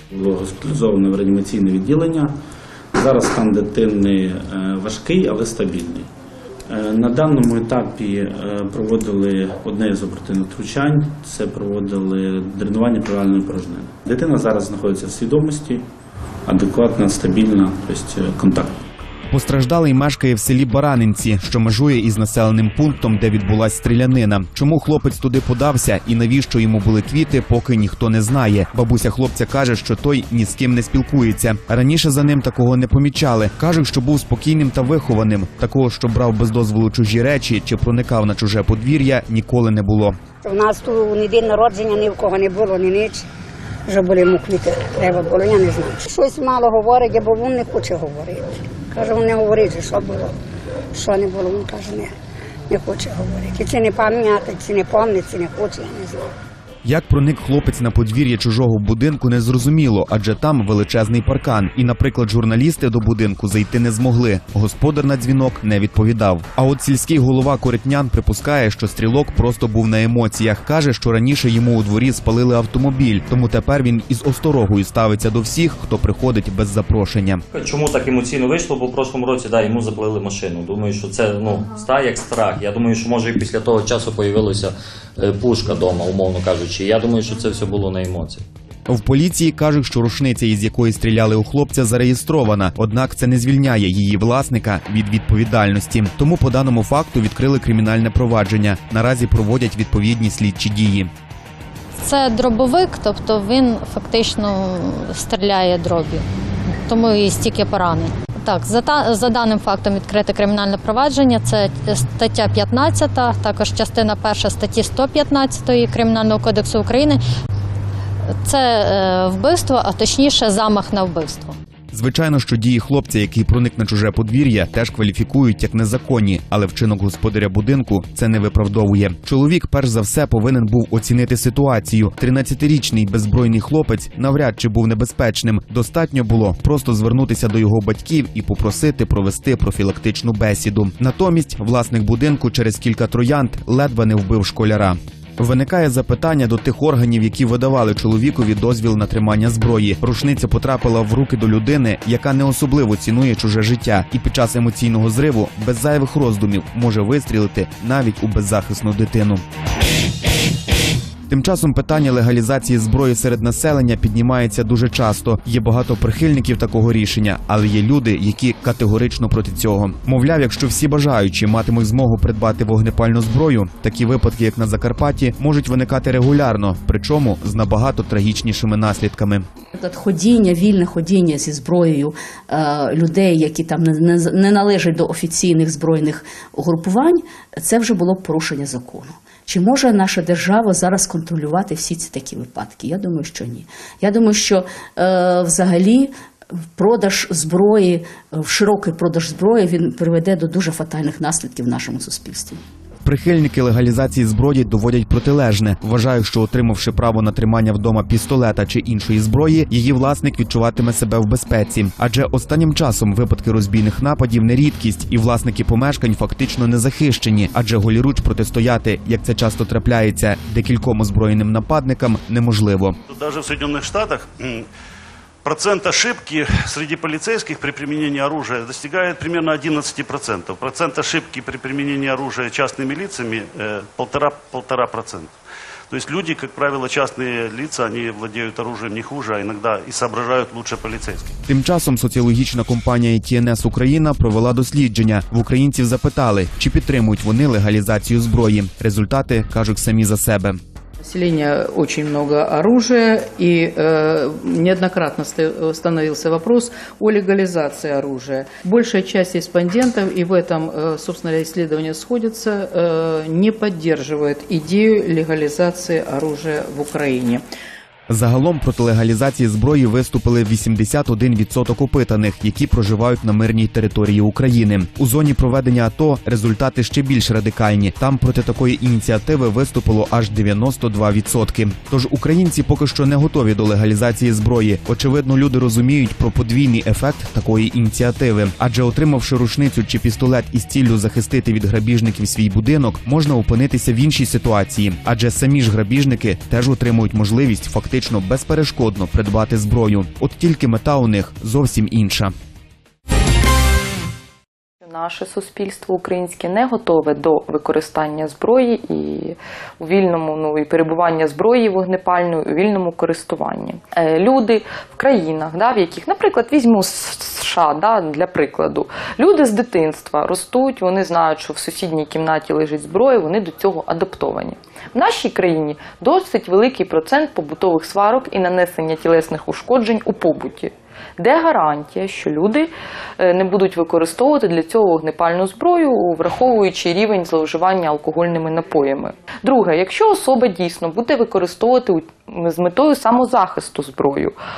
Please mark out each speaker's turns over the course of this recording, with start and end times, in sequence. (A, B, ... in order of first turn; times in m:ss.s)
0:00.1-0:02.3 A
0:02.9-0:06.1 A
0:06.7-0:15.8 A
0:16.5-0:18.8 A
0:19.3-0:40.2 B
0:40.4-0:43.3 C
0:43.9-0:50.4 C
0:50.9-0:52.1 C
0:52.7-0:56.3 C
0:56.8-1:17.4 B
1:17.5-1:28.4 D
1:28.9-1:41.1 B
1:42.0-1:46.2 E
1:46.9-1:57.2 E
1:58.4-2:01.6 E
2:01.9-2:39.4 B
2:41.3-2:59.4 B
2:59.8-3:16.1 F
3:16.8-3:22.6 F
3:23.0-3:43.0 B
3:43.1-3:44.6 G
3:45.4-3:55.3 G
3:55.9-4:01.3 G
4:01.5-4:10.6 B
4:11.0-4:27.4 H
4:28.1-5:02.3 B
5:04.8-5:44.4 I